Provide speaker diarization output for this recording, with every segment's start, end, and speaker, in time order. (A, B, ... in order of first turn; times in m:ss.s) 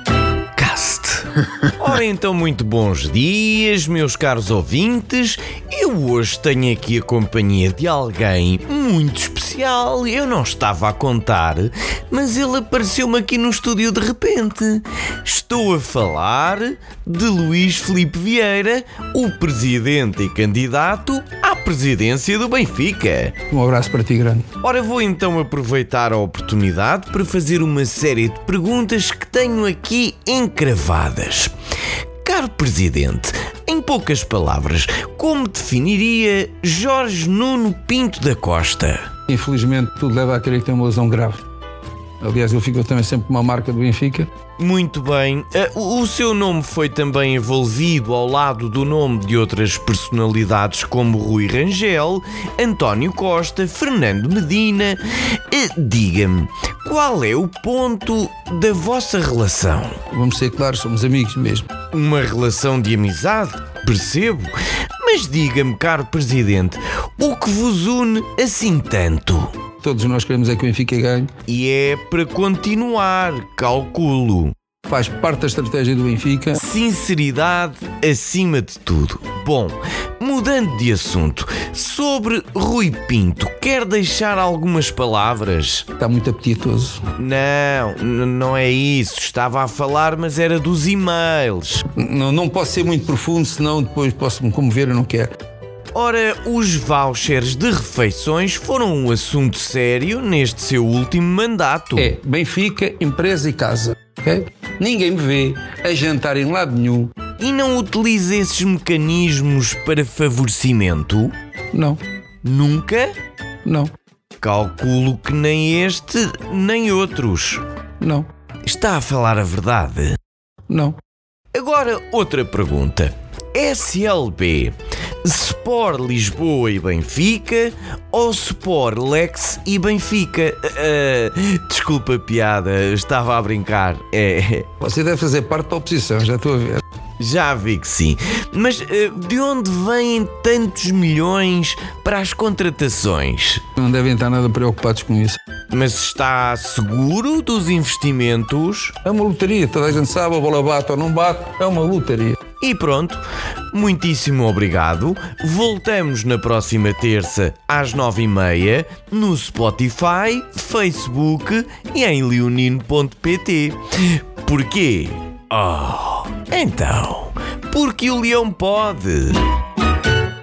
0:00.6-0:23.4 A
0:23.5-0:24.4 B
0:24.6-0:31.5 A
0:32.2-0:39.1 A
0:39.3-0:41.4 B
0:42.2-0:44.3 B
0:44.6-1:00.0 A
1:00.1-1:01.7 B
1:01.9-1:09.5 A
1:09.8-1:11.3 B
1:11.5-1:14.5 A
1:14.9-1:16.6 B
1:16.6-1:25.8 A
1:26.0-1:27.0 B
1:27.2-1:31.8 A
1:32.0-1:35.3 B
1:35.9-1:42.1 A
1:42.0-1:47.1 B
1:47.4-1:51.3 A
1:51.7-1:52.0 B
1:52.4-1:53.1 A
1:53.6-1:53.9 B
1:54.4-1:57.6 A
1:58.0-1:58.3 B
1:58.6-2:00.2 A
2:00.7-2:01.0 B
2:01.5-2:14.7 A
2:14.8-2:16.8 B
2:17.2-2:23.6 A
2:23.8-2:25.4 B
2:25.7-2:28.9 A
2:29.0-2:32.4 B
2:32.6-2:49.4 A